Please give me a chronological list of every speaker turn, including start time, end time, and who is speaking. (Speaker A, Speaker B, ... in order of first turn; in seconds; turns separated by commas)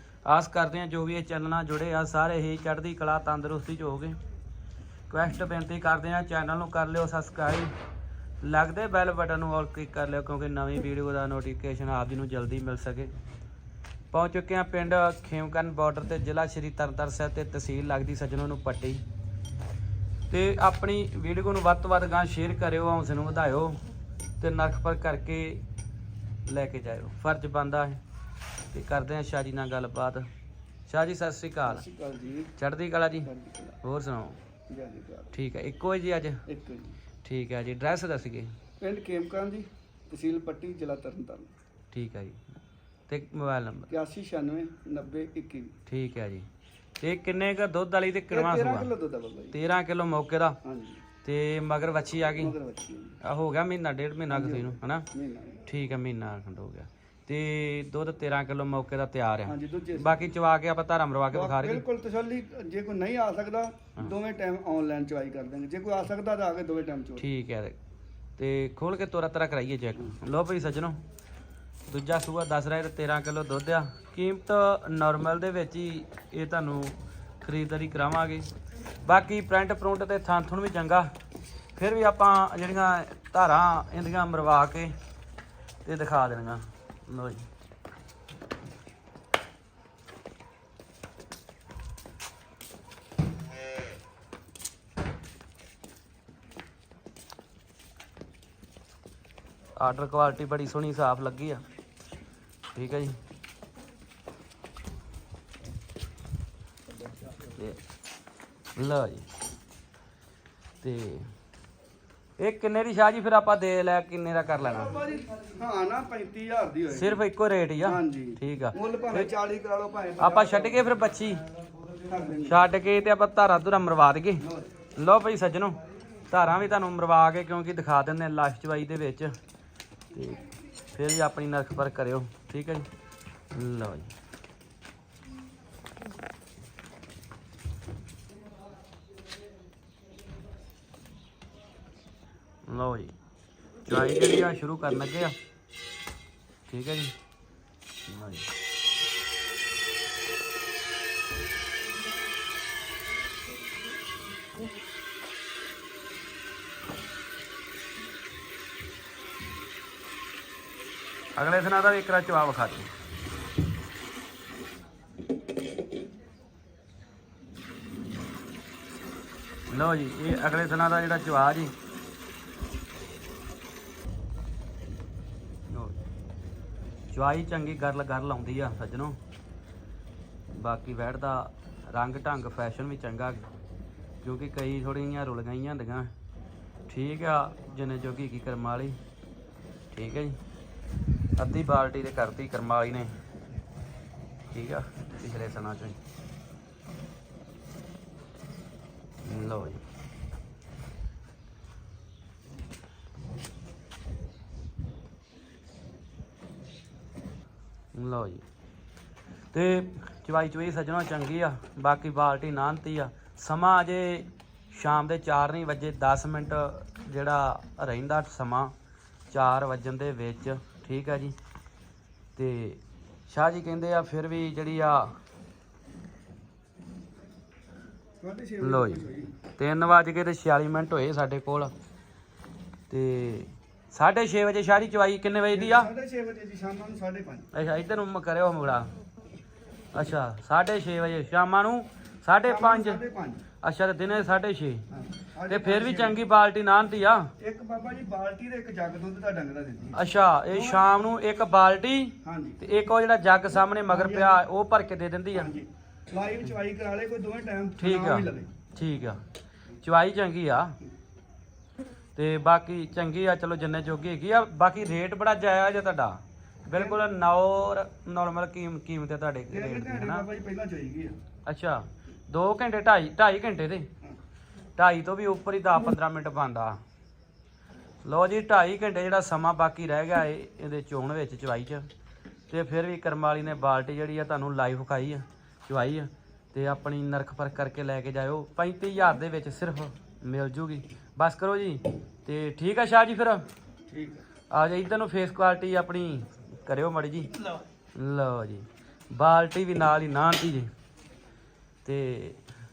Speaker A: 0.2-4.2, Speaker A: 5.1-7.7, Speaker A: 8.4-13.1, Speaker A: 14.1-19.0, Speaker A: 20.3-23.8, Speaker A: 24.4-25.6, Speaker A: 26.4-28.0, Speaker A: 28.7-30.3, Speaker A: 30.9-31.8, Speaker B: 31.6-32.5, Speaker A: 32.6-33.3, Speaker B: 33.2-33.8, Speaker A: 33.8-34.4, Speaker B: 34.7-35.3, Speaker A: 35.3-36.4, Speaker B: 36.5-37.0, Speaker A: 37.2-38.5, Speaker B: 38.8-41.5, Speaker A: 41.9-42.4, Speaker A: 43.1-43.9, Speaker B: 43.9-45.8, Speaker A: 45.9-46.5, Speaker A: 47.0-48.9, Speaker B: 48.3-49.5, Speaker A: 49.5-50.6, Speaker B: 50.6-51.0, Speaker A: 51.2-52.5, Speaker B: 52.4-53.2, Speaker A: 53.2-55.1, Speaker B: 54.3-55.6, Speaker A: 55.6-61.8, Speaker B: 59.5-60.2, Speaker B: 61.3-67.2, Speaker A: 67.2-67.8, Speaker A: 68.4-71.0, Speaker A: 71.9-78.5, Speaker A: 79.0-81.1, Speaker A: 81.8-84.9, Speaker A: 85.8-87.4, Speaker A: 99.8-101.6, Speaker A: 102.7-103.2, Speaker A: 108.8-109.3, Speaker A: 110.8-111.3, Speaker A: 112.4-115.0, Speaker B: 114.7-117.2, Speaker A: 116.9-119.3, Speaker B: 117.8-120.8, Speaker A: 120.2-121.4, Speaker B: 122.0-122.6, Speaker A: 122.4-124.4, Speaker B: 124.4-124.7, Speaker A: 125.0-125.8, Speaker A: 126.3-129.3, Speaker A: 130.1-130.4, Speaker A: 130.9-132.9, Speaker A: 133.5-134.1, Speaker A: 142.7-143.1, Speaker A: 143.8-145.3, Speaker A: 146.7-147.1, Speaker A: 148.1-148.5, Speaker A: 161.3-162.9, Speaker A: 169.7-171.7, Speaker A: 175.7-176.0, Speaker A: 177.1-179.2, Speaker A: 180.5-183.5, Speaker A: 184.2-186.1, Speaker A: 186.9-189.0, Speaker A: 189.9-190.4, Speaker A: 191.3-193.1, Speaker A: 194.5-196.0, Speaker A: 199.2-199.8, Speaker A: 207.9-208.4, Speaker A: 209.5-218.7, Speaker A: 219.3-221.3, Speaker A: 222.3-225.1, Speaker B: 228.2-229.3, Speaker A: 228.6-231.7, Speaker A: 232.9-235.9, Speaker B: 235.5-237.5, Speaker A: 237.5-238.9, Speaker A: 239.9-243.0, Speaker B: 242.4-243.4, Speaker A: 243.6-244.8, Speaker B: 244.9-246.2, Speaker A: 245.5-247.3, Speaker B: 247.4-250.8, Speaker A: 249.9-255.5, Speaker B: 252.2-252.6, Speaker B: 253.9-254.4, Speaker B: 255.3-258.5, Speaker A: 257.8-259.2, Speaker A: 259.8-260.7, Speaker A: 262.1-270.2, Speaker B: 266.7-267.1, Speaker B: 269.5-271.1, Speaker A: 271.4-273.9, Speaker A: 274.8-276.8, Speaker A: 278.0-281.9, Speaker A: 282.5-293.4, Speaker B: 293.9-294.2, Speaker A: 294.5-297.3, Speaker A: 297.9-300.7, Speaker A: 301.8-302.4